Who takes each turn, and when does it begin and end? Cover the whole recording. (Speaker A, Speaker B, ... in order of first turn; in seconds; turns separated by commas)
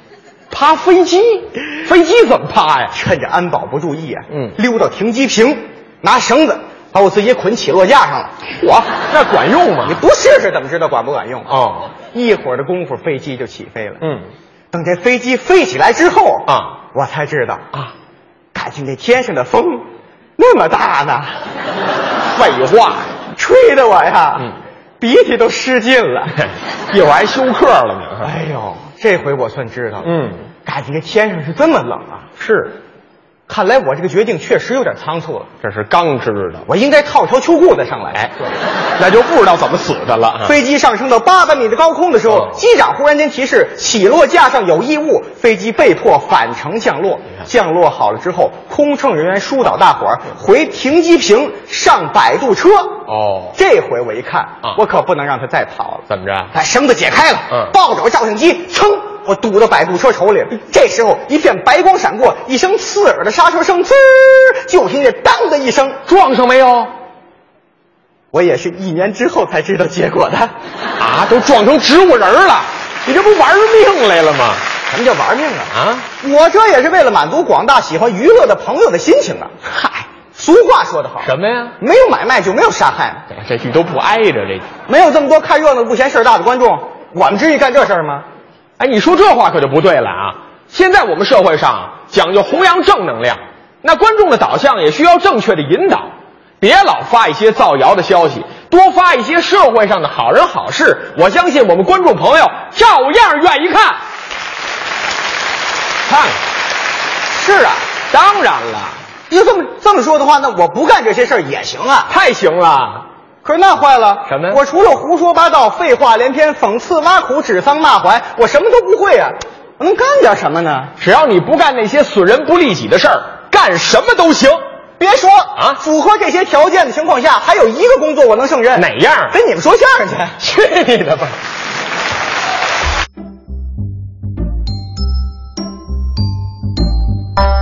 Speaker A: 0.5-3.0, Speaker B: 2.9-8.3, Speaker A: 4.3-4.6, Speaker A: 8.6-10.0, Speaker B: 9.8-14.0, Speaker A: 11.5-11.9, Speaker A: 14.0-14.3, Speaker B: 14.7-17.7, Speaker A: 16.5-16.8, Speaker B: 18.5-19.9, Speaker B: 20.4-21.4, Speaker A: 22.4-23.1, Speaker B: 23.4-26.4, Speaker A: 26.9-28.3, Speaker B: 28.2-30.1, Speaker A: 30.0-30.4, Speaker B: 30.6-32.3, Speaker A: 32.4-32.8, Speaker B: 33.5-35.5, Speaker A: 35.6-36.7, Speaker B: 36.7-38.5, Speaker A: 39.0-40.5, Speaker B: 40.4-53.0, Speaker A: 53.1-53.6, Speaker B: 53.6-66.0, Speaker A: 56.1-56.5, Speaker A: 66.1-66.9, Speaker B: 68.3-70.5, Speaker A: 71.0-74.6, Speaker B: 74.9-83.2, Speaker A: 75.7-76.1, Speaker A: 81.2-81.8, Speaker A: 83.3-84.7, Speaker B: 84.9-88.3, Speaker A: 88.8-96.1, Speaker A: 96.6-104.0, Speaker A: 106.1-106.4, Speaker B: 107.3-107.9, Speaker A: 108.1-109.0, Speaker B: 109.3-112.1, Speaker A: 112.1-113.0, Speaker B: 113.4-120.9, Speaker A: 114.3-114.6, Speaker A: 121.0-124.6, Speaker B: 125.0-130.4, Speaker A: 128.8-129.3, Speaker A: 130.4-131.4